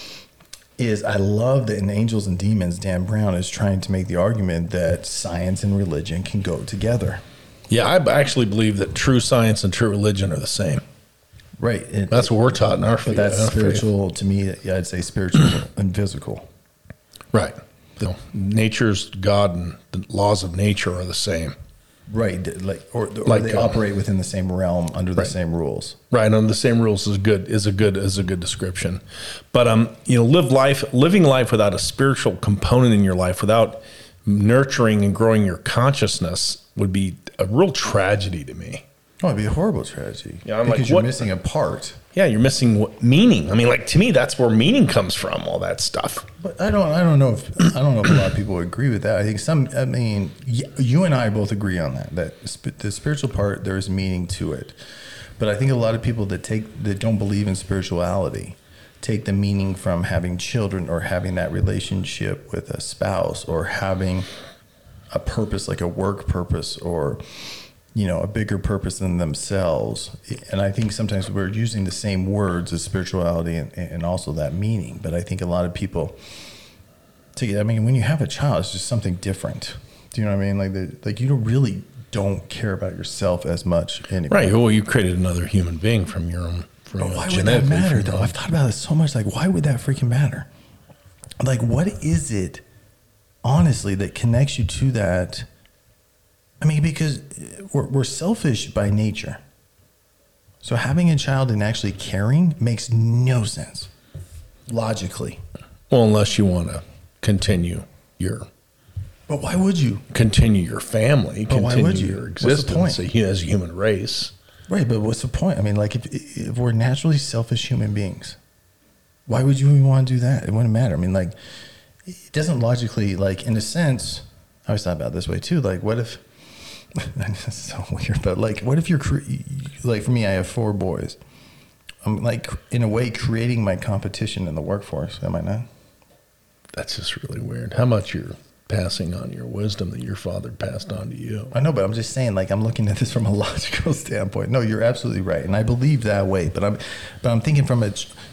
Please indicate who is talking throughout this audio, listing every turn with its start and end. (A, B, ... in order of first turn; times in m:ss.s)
0:00.8-0:07.2 A
0:07.7-0:10.8 B
0:11.6-0:16.5 A
0:12.1-0:13.8 B
0:17.3-0:21.6 B
0:22.1-0:26.0 A
0:23.3-0:23.8 B
0:26.1-0:38.8 B
0:39.2-0:42.0 A
0:40.4-0:41.3 B
0:42.1-0:46.3 B
0:46.4-0:54.8 A
0:55.4-1:04.3 A
1:05.1-1:16.2 A
1:17.4-1:24.6 A
1:24.3-1:28.3 B
1:27.0-1:30.5 A
1:31.4-1:32.6 A
1:33.4-1:35.5 A
1:36.6-1:39.4 A
1:40.6-1:43.9 A
1:44.7-1:45.4 A
1:45.9-1:48.5 B
1:49.3-1:50.0 A
1:50.1-1:54.3 B
1:51.5-1:53.0 A
1:54.7-1:58.4 A
1:59.3-2:01.4 A
2:02.0-2:11.2 A
2:12.0-2:15.7 A
2:16.7-2:21.5 B
2:21.5-2:28.2 A